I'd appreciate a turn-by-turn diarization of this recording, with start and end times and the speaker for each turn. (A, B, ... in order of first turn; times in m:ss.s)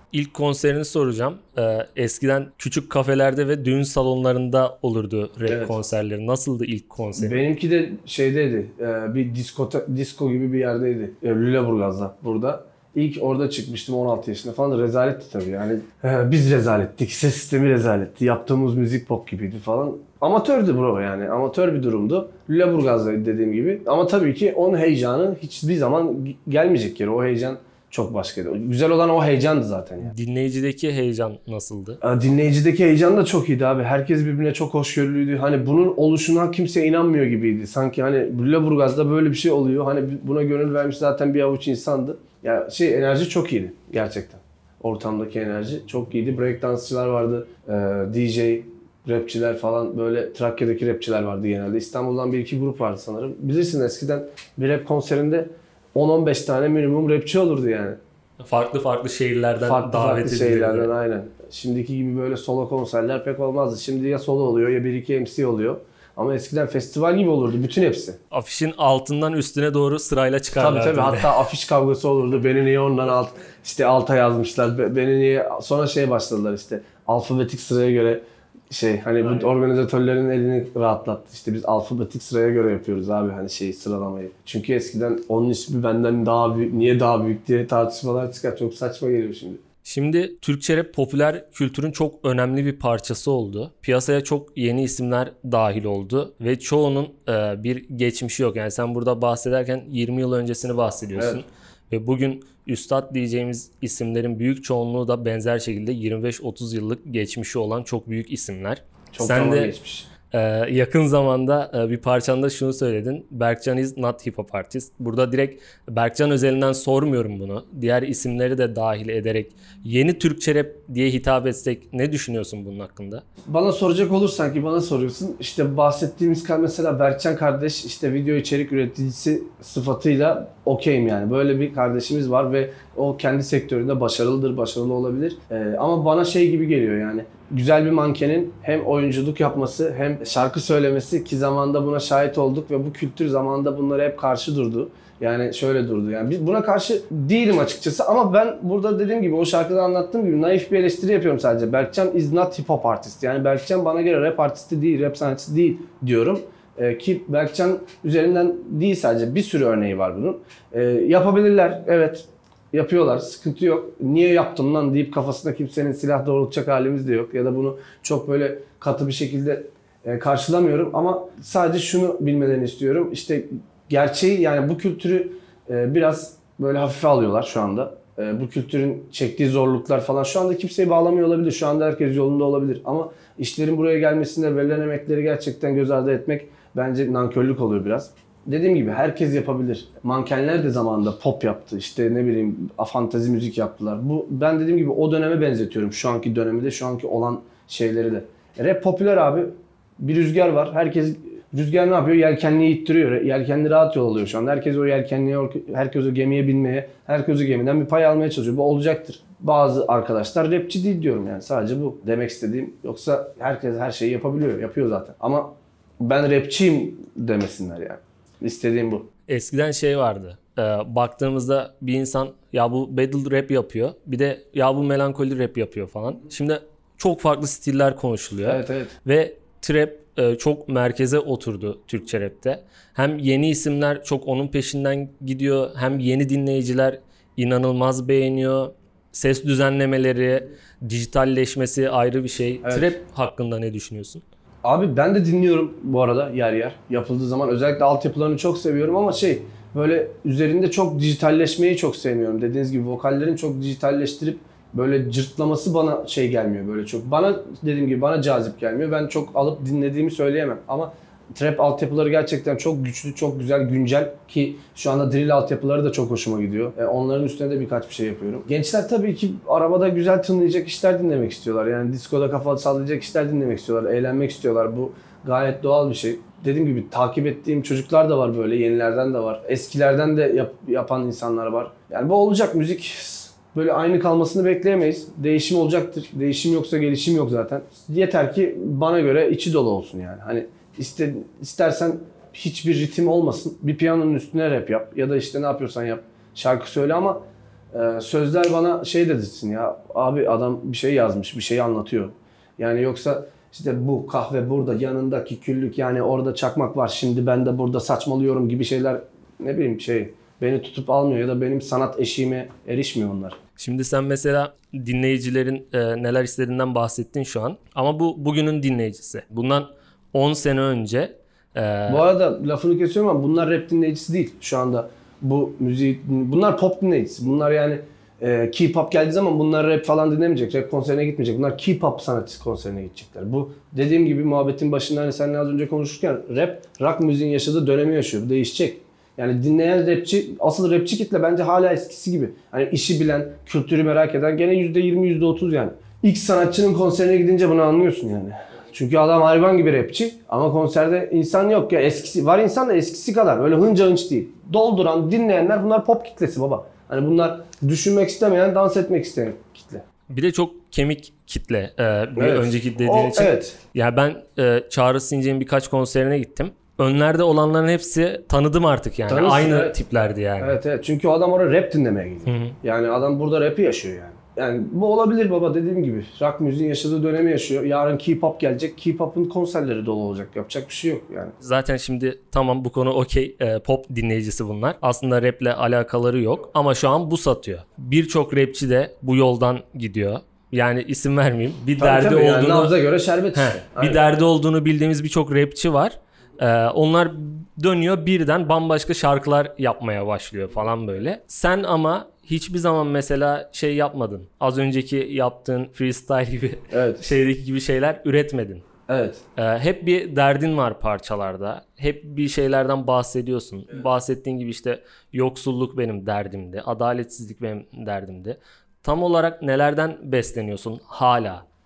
0:00.1-0:07.4 A
0:05.4-0:05.8 B
0:07.2-0:30.1 B
0:30.0-0:32.0 A
0:32.0-0:58.0 B
0:58.4-1:00.9 A
0:59.6-1:08.2 B
1:08.3-1:11.4 A
1:10.6-1:29.6 B
1:29.8-1:49.7 A
1:41.2-1:41.4 B
1:49.1-1:50.1 B
1:50.3-2:03.2 A
2:03.5-3:39.1 B
3:39.3-4:04.2 A
3:48.4-3:48.9 B
4:02.6-4:02.9 B
4:04.6-4:57.2 B
4:57.7-5:13.4 B
5:13.6-5:22.1 A
5:21.9-5:59.8 B
6:00.1-6:10.6 A
6:02.2-6:03.6 B
6:09.1-6:09.8 B
6:10.4-6:21.3 B
6:12.3-6:12.6 A
6:21.4-6:32.7 A
6:31.8-6:34.1 B
6:33.3-6:48.6 A
6:46.7-6:47.1 B
6:48.9-6:49.2 B
6:49.4-7:01.4 A